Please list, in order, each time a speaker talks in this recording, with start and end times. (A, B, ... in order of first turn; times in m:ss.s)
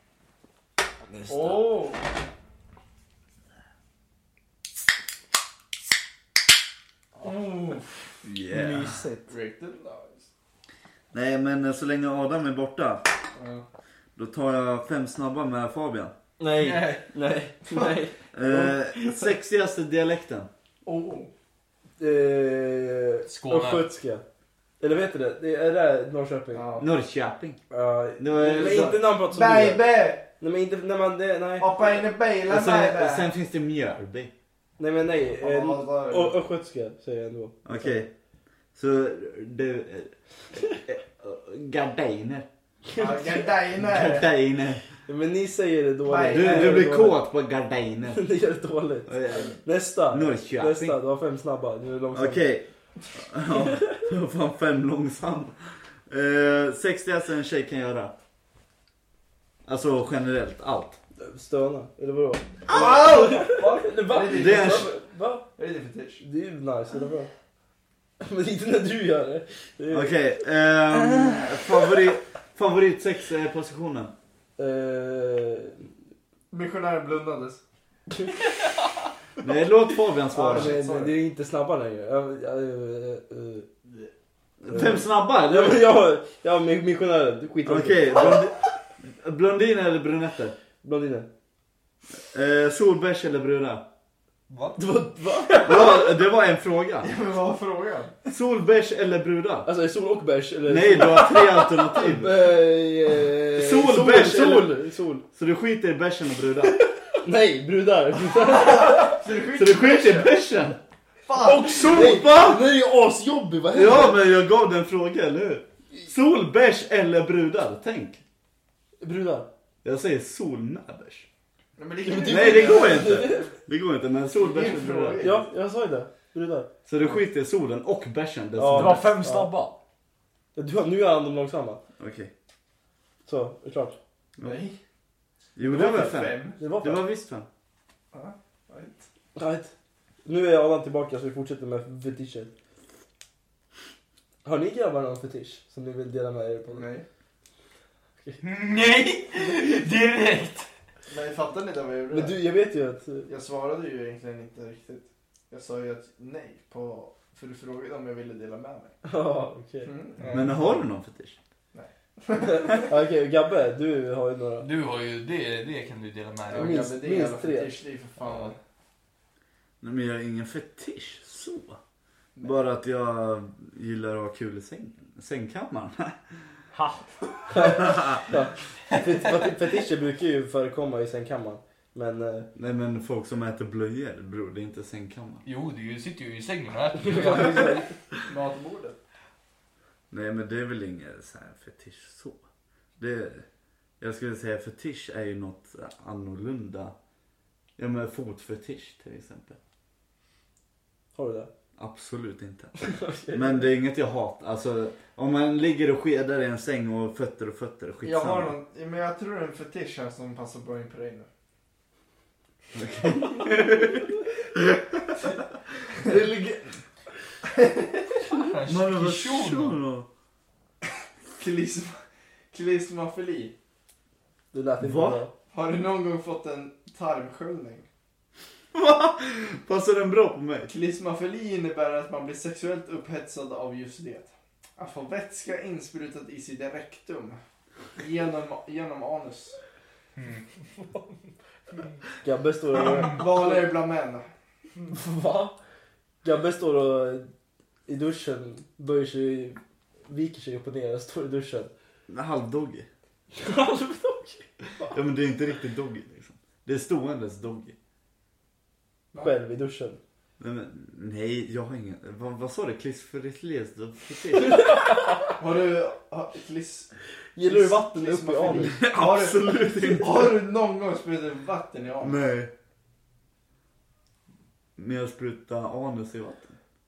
0:01.1-0:01.8 A
0:01.3-0:02.0 B
0:07.2-0:07.9 B
0:08.2-0:09.0 C
0:08.5-0:09.3 A
0:09.3-0:10.3 B
0:11.1-0:13.0 C
0:13.3-0:13.6 B
0:14.2-0:16.1 C
0:16.4-0:19.3 A
0:16.6-0:17.0 B
0:17.7-0:18.0 B
0:18.3-0:20.5 C
0:20.8-0:21.3 B
0:22.0-0:24.2 A
0:23.2-0:23.9 D
0:24.8-0:26.6 A
0:26.5-0:26.9 B
0:26.8-0:27.6 C
0:27.7-0:31.7 A
0:28.2-0:29.0 C
0:28.3-0:30.2 B
0:31.6-0:33.3 B
0:32.4-0:34.3 C
0:34.8-0:38.0 A
0:35.4-0:36.4 B
0:37.6-0:38.1 C
0:38.7-0:42.5 C
0:43.0-0:44.3 B
0:43.7-0:44.9 C
0:45.0-0:47.2 A
0:46.0-0:46.9 B
0:46.3-0:48.2 C
0:48.1-0:52.5 A
0:49.1-0:51.0 C
0:52.1-0:55.6 C
0:53.5-0:54.0 A
0:56.1-0:58.1 C
0:59.6-1:01.0 C
1:01.2-1:05.4 A
1:02.7-1:03.4 C
1:02.7-1:04.9 B
1:04.2-1:04.9 C
1:05.6-1:06.2 B
1:06.2-1:07.3 A
1:08.2-1:10.2 A
1:09.9-1:14.1 C
1:14.6-1:15.9 A
1:16.5-1:17.6 B
1:19.4-1:20.8 C
1:20.3-1:21.1 B
1:20.4-1:23.7 A
1:24.6-1:25.9 C
1:24.7-1:28.4 A
1:27.6-1:30.6 C
1:30.8-1:31.3 A
1:32.1-1:33.9 C
1:34.5-1:34.8 D
1:34.8-1:35.8 A
1:35.6-1:37.1 C
1:37.0-1:38.1 B
1:38.2-1:39.7 C
1:39.6-1:41.4 A
1:40.6-1:42.4 C
1:41.9-1:45.2 A
1:43.5-1:44.7 C
1:45.3-1:46.8 C
1:47.2-1:49.2 A
1:48.4-1:50.4 B
1:49.5-1:50.8 C
1:51.3-1:52.2 B
1:51.4-1:52.3 E
1:51.8-1:54.2 A
1:52.2-1:52.6 C
1:53.7-1:58.2 C
1:59.0-1:59.5 A
1:59.8-2:01.3 C
2:01.8-2:03.4 B
2:02.0-2:03.5 A
2:02.2-2:05.3 C
2:04.3-2:05.5 B
2:05.2-2:06.7 A
2:06.8-2:09.1 C
2:08.6-2:09.5 A
2:08.7-2:09.8 E
2:10.5-2:11.8 A
2:12.0-2:12.3 C
2:13.2-2:14.0 A
2:14.4-2:14.8 B
2:15.6-2:17.5 C
2:15.6-2:16.6 B
2:16.6-2:17.0 A
2:18.1-2:19.1 B
2:19.4-2:19.7 A
2:20.2-2:22.5 A
2:24.4-2:26.9 A
2:26.7-2:27.0 B
2:28.4-2:30.7 D
2:31.1-2:32.4 B
2:32.1-2:33.3 A
2:33.3-2:39.0 B
2:39.0-2:39.9 A
2:39.8-2:40.8 B
2:40.3-2:41.4 C
2:41.7-2:43.0 B
2:42.8-2:44.7 A
2:44.6-2:46.8 D
2:46.5-2:48.6 B
2:46.5-2:47.8 A
2:48.2-2:48.5 D
2:49.8-2:51.8 C
2:52.4-2:56.2 C
2:56.7-2:57.2 E
2:57.5-3:02.5 A
2:57.7-2:58.2 C
2:58.9-2:59.4 D
3:02.5-3:05.4 C
3:05.4-3:07.8 D
3:06.9-3:07.9 A
3:08.2-3:09.0 B
3:10.1-3:12.4 C
3:13.0-3:13.4 C
3:14.0-3:16.9 C
3:17.8-3:19.6 C
3:21.1-3:21.5 A
3:21.8-3:28.5 C
3:22.8-3:23.7 A
3:28.0-3:31.3 B
3:32.7-3:34.0 C
3:36.0-3:36.8 C
3:37.4-3:38.2 B
3:38.3-3:39.8 D
3:38.7-3:40.1 C
3:41.4-3:42.0 B
3:42.5-3:43.5 B
3:44.5-3:45.3 A
3:44.8-3:45.2 C
3:45.5-3:47.8 B
3:48.7-3:50.7 C
3:50.7-3:57.4 B
3:58.0-3:59.6 B
4:00.2-4:00.4 D
4:02.2-4:03.7 A
4:02.7-4:03.2 D
4:03.0-4:04.3 B
4:04.9-4:05.6 A
4:06.2-4:07.3 A
4:07.9-4:11.7 A
4:12.1-4:12.9 C
4:13.3-4:14.5 A
4:14.9-4:17.8 C
4:19.2-4:20.0 A
4:20.4-4:24.7 C
4:25.4-4:26.9 B
4:27.4-4:28.8 A
4:27.4-4:32.2 B
4:28.5-4:30.4 C
4:32.0-4:32.5 C
4:34.8-4:36.6 C